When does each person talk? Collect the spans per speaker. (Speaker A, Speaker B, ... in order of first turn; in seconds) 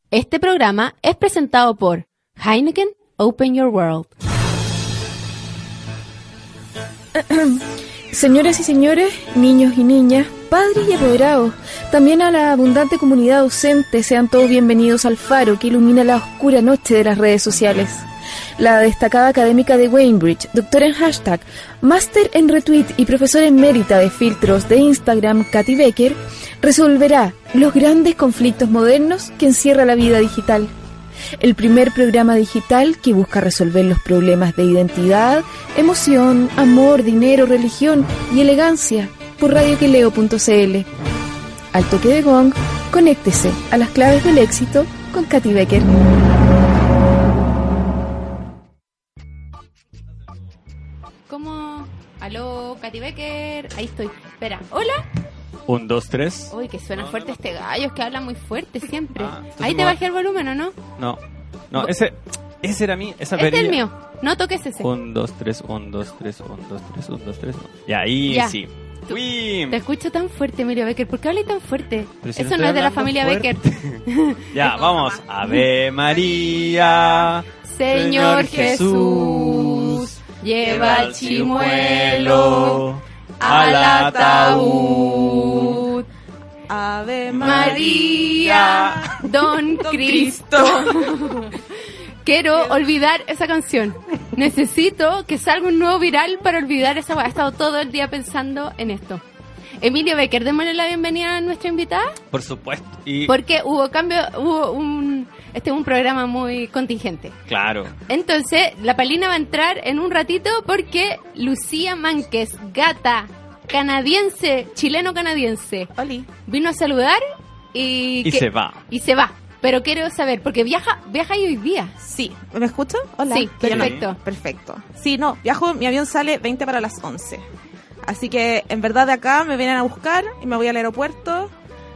Speaker A: 0.1-4.1, 51.3-55.0, 56.5-60.8, 63.4-64.9, 68.3-68.6, 69.1-74.5, 77.7-82.8, 83.4-86.0, 87.4-91.5, 92.2-99.2, 99.8-102.2, 103.3-107.4, 108.1-115.9, 116.5-117.2, 117.7-122.0, 123.3-124.2
Speaker B: 7.2-18.0, 18.6-30.7, 31.4-40.9, 41.7-45.9
Speaker C: 55.7-57.4, 59.2-60.0, 61.7-63.8, 64.8-69.8, 72.2-80.2, 80.7-85.8, 87.3-89.0, 102.3-103.3, 107.5-107.9, 118.2-118.8, 123.6-124.1
Speaker D: 74.6-75.2, 76.2-77.2, 78.5-78.9, 80.7-81.4, 83.4-85.8, 86.7-91.5, 116.0-116.3, 122.0-127.4, 128.0-131.5